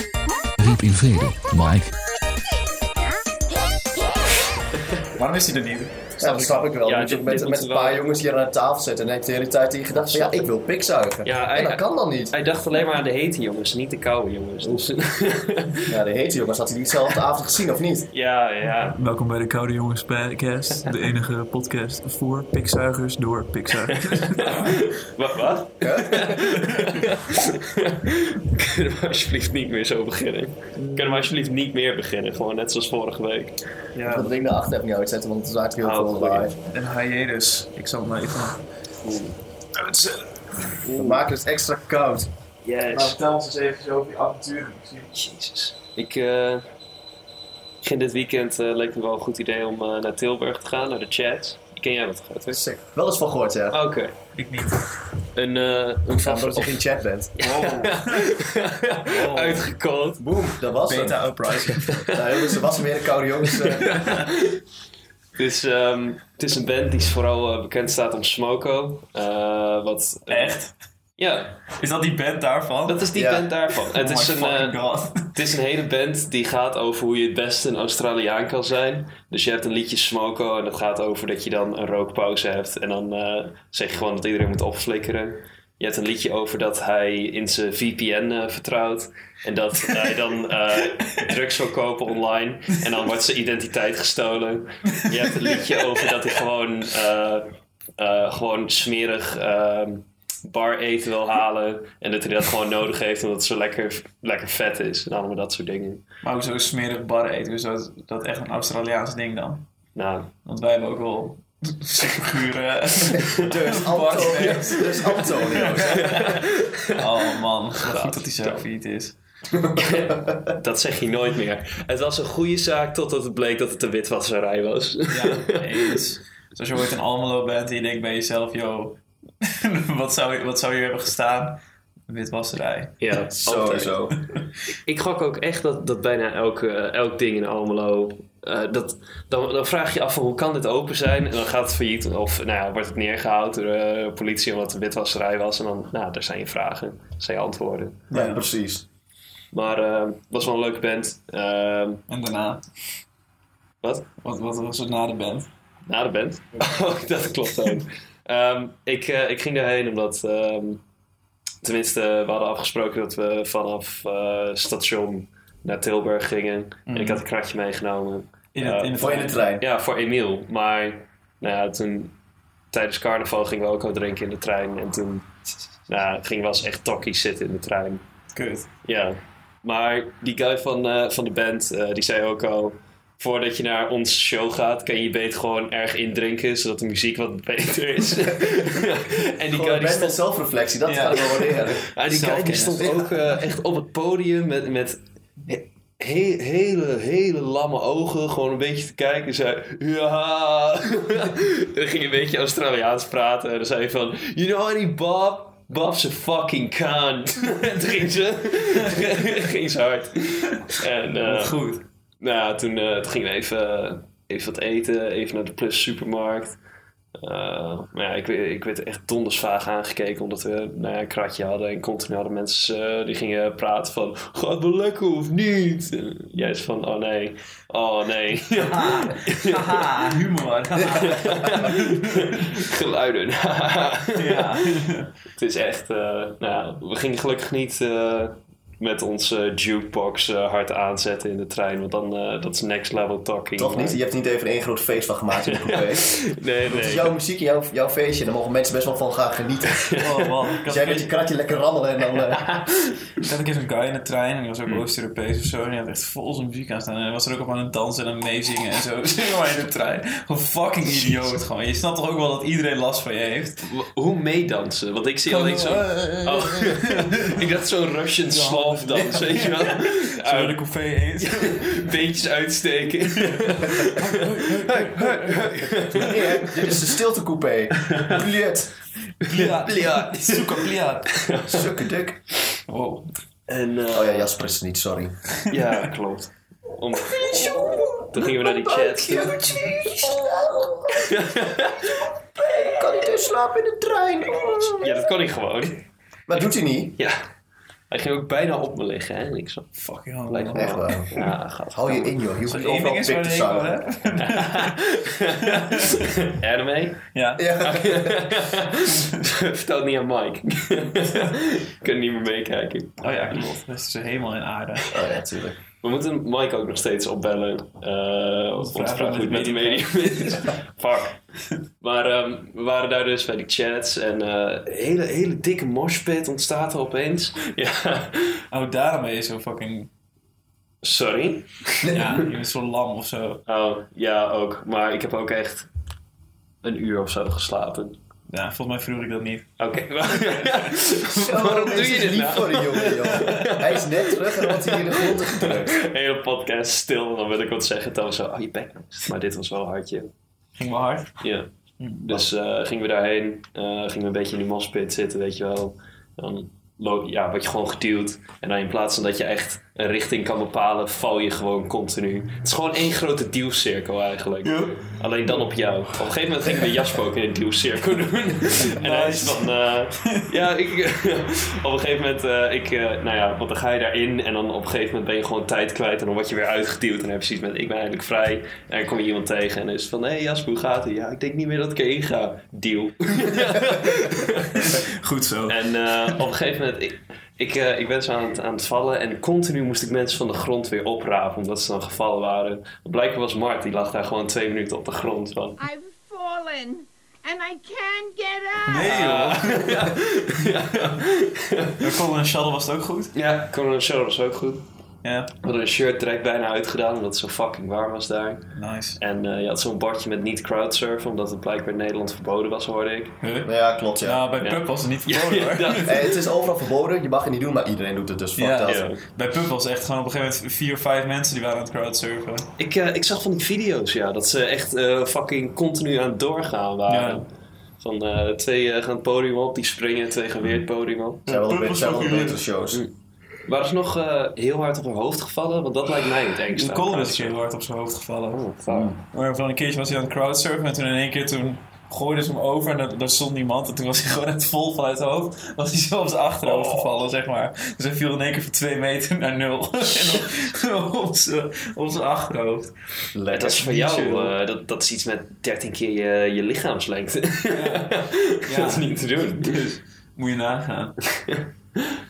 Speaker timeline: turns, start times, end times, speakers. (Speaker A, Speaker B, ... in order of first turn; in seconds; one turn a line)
Speaker A: 0.6-1.9
Speaker B: 5.2-6.7
Speaker A: 6.2-12.3
Speaker C: 6.8-8.0
Speaker C: 9.9-10.5
Speaker C: 11.2-16.0
Speaker A: 15.8-18.1
Speaker C: 18.1-19.0
Speaker B: 18.8-24.9
Speaker C: 23.9-33.6
Speaker A: 25.8-26.6
Speaker B: 30.8-31.3
Speaker B: 34.0-34.3
Speaker A: 34.1-36.6
Speaker C: 35.8-36.5
Speaker B: 36.7-38.6
Speaker C: 39.0-39.4
Speaker B: 39.8-40.9
Speaker C: 40.9-41.1
Speaker A: 40.9-42.3
Speaker C: 42.6-43.2
Speaker B: 42.9-45.1
Speaker C: 45.1-46.7
Speaker C: 47.8-52.6
Speaker A: 52.5-53.8
Speaker C: 53.7-54.2
Speaker B: 54.3-54.9
Speaker C: 55.2-56.8
Speaker A: 56.1-57.4
Speaker C: 57.4-60.3
Speaker B: 57.4-58.3
Speaker B: 59.0-59.7
Speaker A: 60.2-61.4
Speaker B: 60.9-62.0
Speaker C: 61.7-62.6
Speaker A: 62.0-64.1
Speaker C: 63.6-64.6
Speaker C: 65.4-70.7
Speaker B: 70.3-70.7
Speaker C: 71.2-71.6
Speaker B: 71.8-73.0
Speaker C: 72.9-106.0
Speaker A: 73.1-73.5
Speaker B: 73.8-75.4
Speaker B: 90.9-91.2
Speaker B: 106.2-109.7
Speaker C: 110.0-110.3
Speaker B: 110.5-119.1
Speaker A: 113.4-116.2
Speaker C: 115.8-118.7
Speaker A: 119.6-120.4
Speaker C: 119.7-126.0
Speaker B: 125.1-133.6
Speaker C: 133.0-134.0
Speaker A: 133.3-134.2
Speaker C: 134.8-148.0
Speaker B: 148.1-148.4
Speaker A: 148.1-148.8
Speaker C: 149.5-152.1
Speaker B: 152.1-152.7
Speaker C: 153.8-154.1
Speaker B: 154.2-155.5
Speaker C: 155.9-160.8
Speaker C: 161.6-172.1
Speaker B: 166.9-167.2
Speaker B: 168.6-169.4
Speaker A: 169.0-169.6
Speaker C: 172.7-175.3
Speaker C: 175.9-178.0
Speaker B: 178.3-178.7
Speaker C: 178.8-190.2
Speaker A: 189.5-191.8
Speaker B: 190.8-192.9
Speaker C: 191.8-211.6
Speaker A: 192.8-193.1
Speaker B: 211.2-211.8
Speaker C: 212.2-216.6
Speaker C: 217.2-230.0
Speaker B: 228.7-232.5
Speaker C: 230.9-234.8
Speaker B: 234.2-235.1
Speaker C: 235.3-244.0
Speaker A: 243.6-249.8
Speaker C: 245.4-247.1
Speaker C: 249.7-250.5
Speaker B: 250.0-251.1
Speaker A: 250.7-252.5
Speaker C: 252.2-253.3
Speaker B: 253.2-263.7
Speaker C: 263.6-270.6
Speaker B: 265.3-267.4
Speaker B: 268.3-271.8
Speaker C: 271.2-276.8
Speaker B: 273.2-276.2
Speaker A: 276.0-278.7
Speaker C: 279.2-281.7
Speaker B: 279.2-281.3
Speaker A: 281.5-282.2
Speaker B: 282.7-283.1
Speaker C: 283.5-284.3
Speaker A: 283.9-285.2
Speaker C: 285.5-289.4
Speaker A: 287.0-295.1
Speaker B: 289.5-289.8
Speaker C: 291.0-292.0
Speaker C: 294.8-295.9
Speaker A: 296.3-297.0
Speaker C: 297.9-299.7
Speaker B: 299.8-300.8
Speaker C: 300.3-302.2
Speaker A: 300.5-303.8
Speaker B: 302.5-304.9
Speaker C: 304.2-313.4
Speaker B: 305.4-306.2
Speaker B: 307.1-307.6
Speaker A: 307.4-308.1
Speaker B: 313.0-315.0
Speaker A: 314.9-315.6
Speaker C: 315.8-321.2
Speaker B: 318.6-320.5
Speaker C: 321.8-328.4
Speaker B: 328.5-329.9
Speaker C: 330.8-332.2
Speaker B: 331.9-333.4
Speaker C: 333.5-335.7
Speaker C: 336.6-338.0
Speaker B: 338.3-340.9
Speaker C: 339.6-350.1
Speaker A: 341.1-345.8
Speaker B: 343.2-343.5
Speaker B: 350.6-351.1
Speaker C: 351.2-351.5
Speaker B: 351.8-352.1
Speaker C: 352.0-384.9
Speaker B: 364.4-364.9
Speaker B: 368.6-369.5
Speaker B: 384.6-386.2
Speaker C: 385.5-395.6
Speaker D: 395.6-398.9
Speaker B: 398.6-399.9
Speaker C: 398.8-401.9
Speaker B: 401.8-403.1
Speaker C: 403.1-404.6
Speaker B: 405.0-405.3
Speaker C: 405.4-408.5
Speaker B: 408.6-409.0
Speaker C: 409.0-413.2
Speaker B: 413.2-416.0
Speaker A: 413.4-414.2
Speaker C: 414.4-416.2
Speaker A: 415.8-418.8
Speaker B: 418.4-422.5
Speaker C: 418.7-419.0
Speaker C: 422.6-427.3
Speaker B: 426.9-427.2
Speaker C: 427.8-431.2
Speaker B: 431.3-432.4
Speaker A: 431.3-432.8
Speaker C: 433.4-437.3
Speaker B: 436.5-452.7
Speaker C: 438.3-439.0
Speaker C: 446.4-447.0
Speaker C: 450.0-450.2
Speaker A: 453.1-453.6
Speaker C: 453.3-459.6
Speaker B: 453.4-454.4
Speaker B: 457.5-461.0
Speaker C: 461.1-461.9